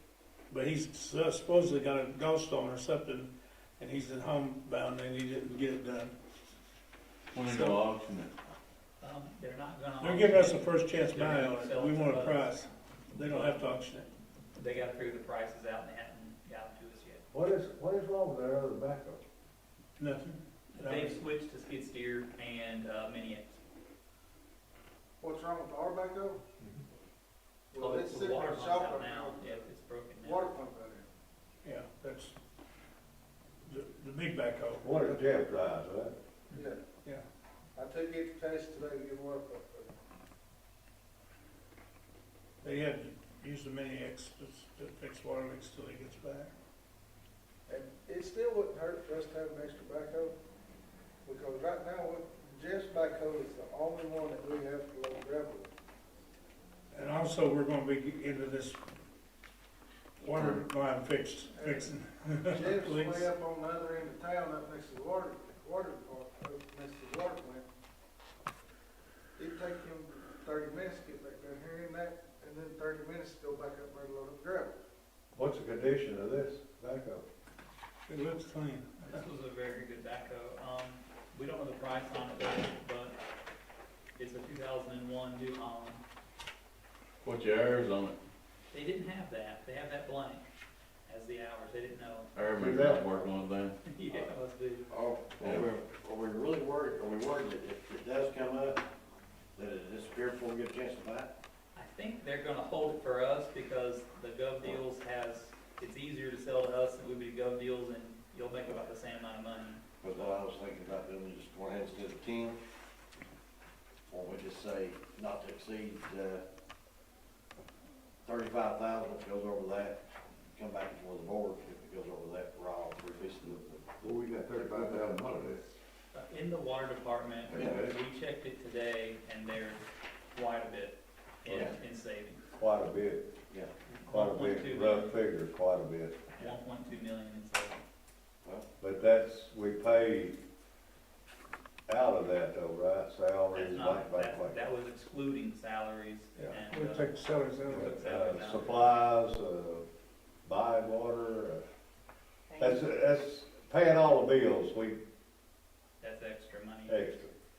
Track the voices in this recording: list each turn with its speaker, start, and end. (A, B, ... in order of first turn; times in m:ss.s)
0:00.5-0:06.2 A
0:07.3-0:08.3 B
0:07.4-0:07.8 A
0:09.0-0:12.6 C
0:10.0-0:14.1 A
0:13.3-0:13.6 C
0:14.6-0:17.2 C
0:17.3-0:19.2 D
0:20.0-0:21.2 A
0:20.7-0:23.6 C
0:25.2-0:26.4 E
0:27.7-0:29.7 E
0:27.8-0:30.5 C
0:30.2-0:31.1 E
0:31.6-0:32.4 A
0:33.7-0:34.9 A
0:34.8-0:36.2 D
0:36.5-0:36.8 E
0:37.8-0:40.0 E
0:42.6-0:46.5 A
0:47.7-0:50.4 E
0:51.2-0:55.7 E
0:56.9-0:58.8 A
1:00.2-1:03.3 A
1:00.2-1:00.6 B
1:01.5-1:01.9 E
1:02.5-1:07.6 E
1:09.4-1:14.8 E
1:15.4-1:17.2 D
1:18.1-1:19.2 A
1:19.1-1:23.2 C
1:24.2-1:26.0 C
1:27.2-1:28.2 B
1:28.7-1:30.4 C
1:31.1-1:32.3 C
1:32.4-1:33.8 B
1:32.6-1:33.1 D
1:33.8-1:34.9 C
1:34.9-1:38.8 F
1:35.4-1:35.7 B
1:39.6-1:41.3 F
1:41.8-1:49.8 C
1:50.0-1:52.6 F
1:54.1-1:56.4 F
1:58.2-2:05.3 F
2:04.0-2:05.6 D
2:06.1-2:09.8 C
2:07.5-2:08.0 F
2:10.3-2:12.4 C
2:11.4-2:11.8 F
2:12.5-2:13.3 D
2:13.9-2:15.2 C
2:14.1-2:16.2 D
2:16.4-2:17.8 C
2:18.8-2:20.4 D
2:21.9-2:24.6 D
2:23.5-2:28.7 C
2:26.4-2:27.9 A
2:27.7-2:29.9 D
2:30.5-2:31.6 D
2:32.6-2:35.0 D
2:36.0-2:37.0 C
2:36.9-2:37.3 D